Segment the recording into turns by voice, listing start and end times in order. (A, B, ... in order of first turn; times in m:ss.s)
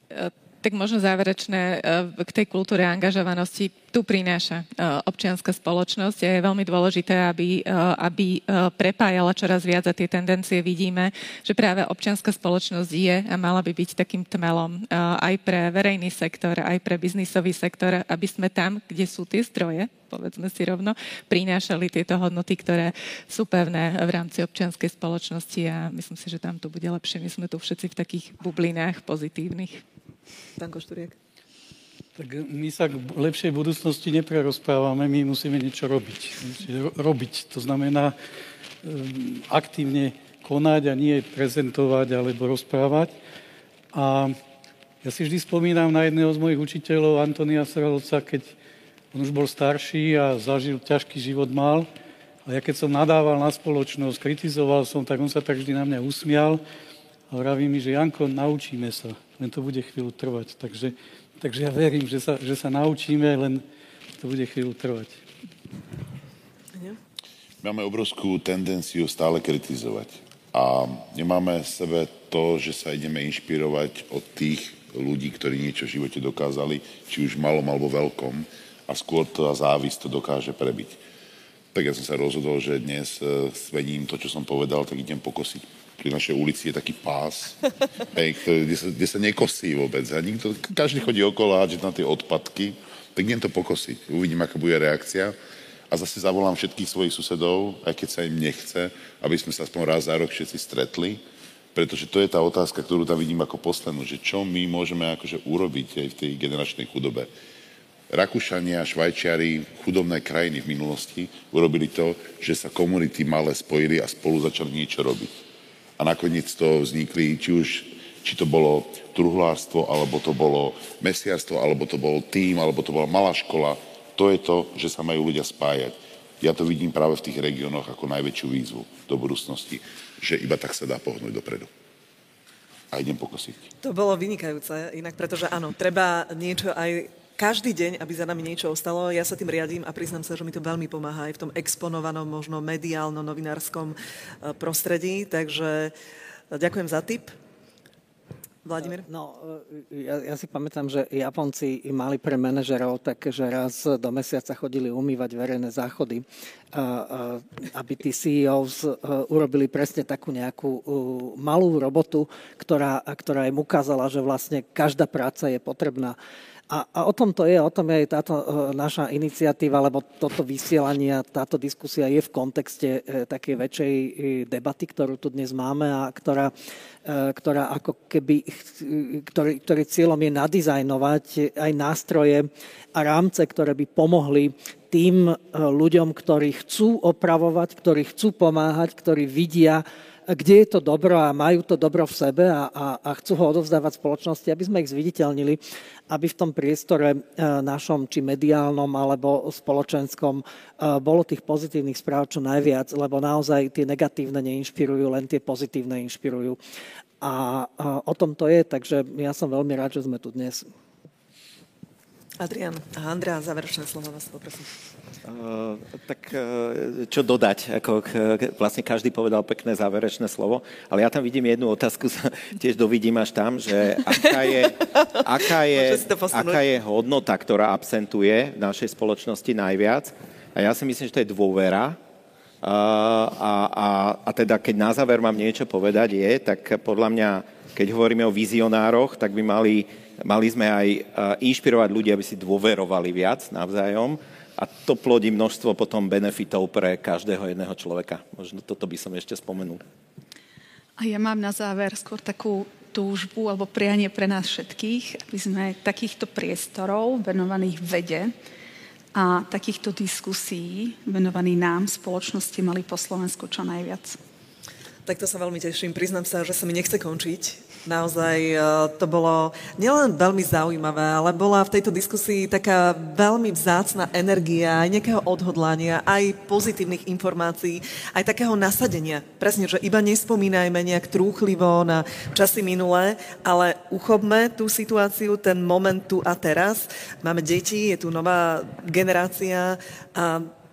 0:00.1-0:29.8 A
0:30.6-0:31.1 B
0:32.2-0:38.1 C
0:38.8-0:43.2 C
0:43.9-0:44.4 C
0:45.0-0:48.6 C
0:49.1-0:51.9 C
0:52.4-0:56.6 C
0:57.3-1:03.6 C
1:04.2-1:05.2 C
1:07.6-1:21.0 D
1:21.7-1:35.3 D
1:35.9-1:41.2 D
1:41.7-1:47.3 D
1:48.1-1:55.4 D
1:56.0-2:11.7 D
2:12.9-2:13.7 D
2:13.8-2:25.9 B
2:26.5-2:27.3 B
2:28.6-2:29.0 B
2:28.8-2:46.2 E
2:46.7-2:56.5 E
2:57.0-3:26.6 E
3:27.2-3:30.7 E
3:32.4-3:34.7 B
3:35.2-3:52.0 F
3:44.2-3:46.6 B
3:52.6-4:09.8 F
4:11.0-4:18.3 G
4:19.1-4:24.2 G
4:25.0-4:50.5 B